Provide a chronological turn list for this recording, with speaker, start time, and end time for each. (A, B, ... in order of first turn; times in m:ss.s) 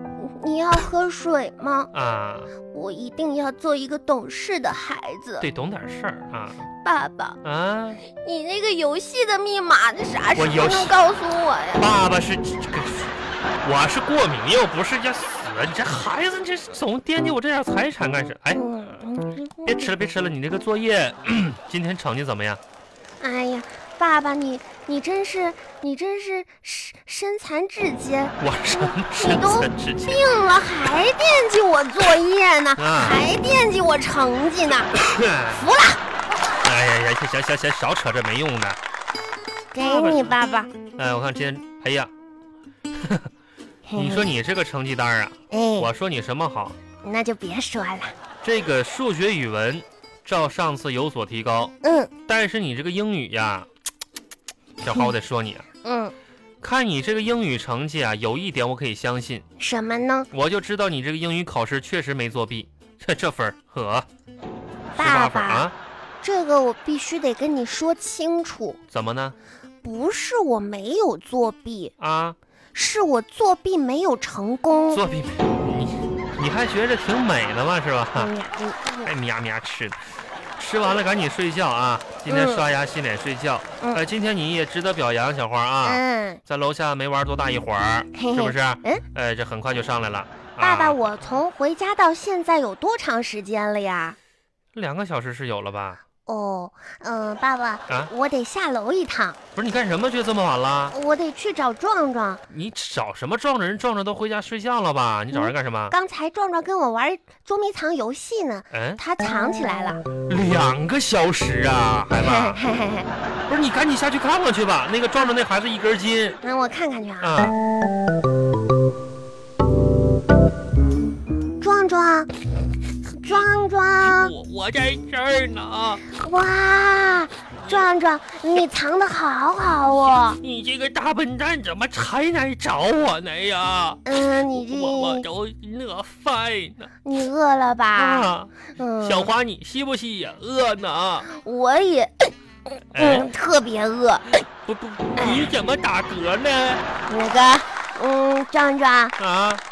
0:00.2-0:01.9 A
0:01.9-0:02.5 B
0:02.7-0:05.5 A
0:05.4-0:06.6 B
0:06.8-0:07.4 A
0:07.4-0:08.0 B
0:08.0-0:11.9 A
0:10.4-0:10.9 B
0:11.8-0:18.6 B
0:18.5-0:19.9 A
0:19.6-0:22.6 B
0:23.2-0:34.9 A
0:28.4-0:30.2 B
0:32.8-0:33.2 B
0:34.9-0:35.6 B
0:35.5-0:36.0 A
0:36.6-0:38.8 B
0:39.7-0:40.7 A
0:39.8-0:40.3 B
0:41.0-0:42.1 B
0:43.0-0:43.3 B
0:43.9-0:44.3 A
0:44.0-0:46.8 B
0:45.5-0:45.9 A
0:47.0-0:48.1 A
0:48.4-0:51.7 B
0:51.8-0:52.1 A
0:52.3-0:53.7 B
0:54.8-0:55.6 B
0:55.8-0:56.1 A
0:56.6-0:59.4 B
0:59.6-1:00.3 A
1:00.3-1:04.1 B
1:04.9-1:05.8 B
1:05.0-1:05.7 A
1:06.2-1:08.8 A
1:08.9-1:09.4 B
1:09.8-1:11.9 A
1:12.0-1:12.4 B
1:12.7-1:15.0 A
1:14.9-1:18.3 B
1:18.2-1:19.1 A
1:19.0-1:20.0 B
1:20.6-1:31.2 B
1:22.3-1:22.6 A
1:25.8-1:26.4 A
1:28.2-1:29.0 A
1:30.6-1:34.2 A
1:34.7-1:36.0 B
1:36.3-1:39.4 A
1:39.6-1:41.0 B
1:40.9-1:42.4 A
1:42.5-1:45.9 B
1:45.3-1:50.0 A
1:48.7-1:49.0 B
1:50.3-1:52.6 B
1:52.2-1:53.1 A
1:53.5-1:56.4 B
1:56.4-1:57.3 A
1:57.2-1:57.6 B
2:01.6-2:02.3 A
2:03.2-2:04.3 A
2:04.0-2:06.1 B
2:06.1-2:10.4 A
2:10.4-2:16.9 B
2:14.0-2:15.3 A
2:17.0-2:19.3 A
2:17.9-2:21.3 B
2:21.3-2:24.4 A
2:22.9-2:23.3 B
2:24.7-2:26.8 B
2:25.2-2:25.5 A
2:27.1-2:29.2 A
2:29.2-2:29.6 B